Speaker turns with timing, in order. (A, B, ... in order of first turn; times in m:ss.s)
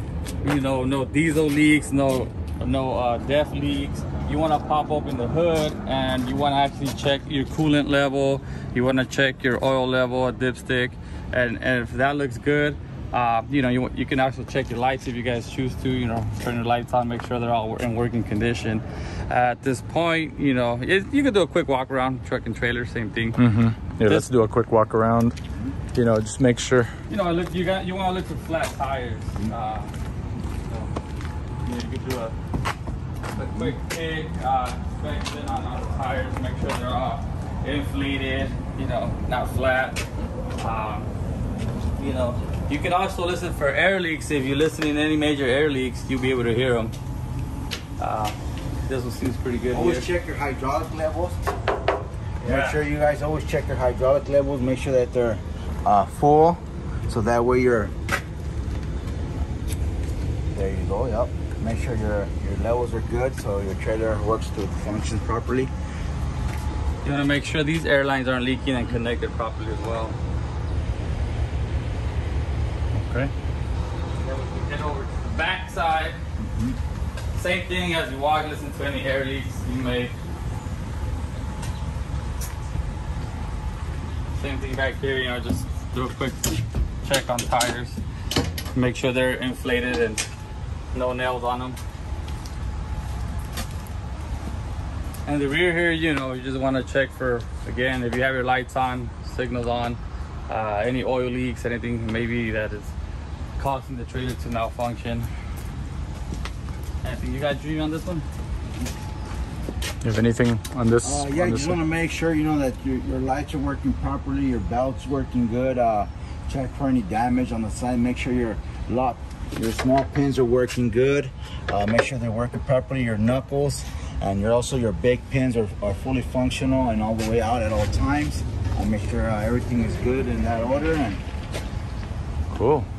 0:00.4-0:23.4 A
0:23.4-0:25.4 B
0:24.0-0:24.3 A
0:25.9-0:26.9 B
0:27.1-0:29.9 A
0:31.6-0:32.3 A
0:33.3-0:40.0 A
0:40.6-0:41.1 A
0:42.0-0:46.9 A
0:48.0-0:50.1 A
0:49.7-0:51.4 C
0:52.4-0:57.9 C
0:52.4-0:52.8 A
1:00.5-1:05.7 C
1:07.0-1:10.2 A
1:12.9-1:13.3 B
1:14.2-1:16.2 A
1:16.4-1:16.8 C
1:17.3-1:20.1 A
1:24.4-1:28.0 A
1:28.7-1:30.2 A
1:30.9-1:31.8 A
1:35.2-1:42.9 A
1:43.6-1:45.3 A
1:47.0-1:48.2 A
1:50.0-1:51.8 B
1:51.0-2:11.2 C
2:12.5-2:12.9 B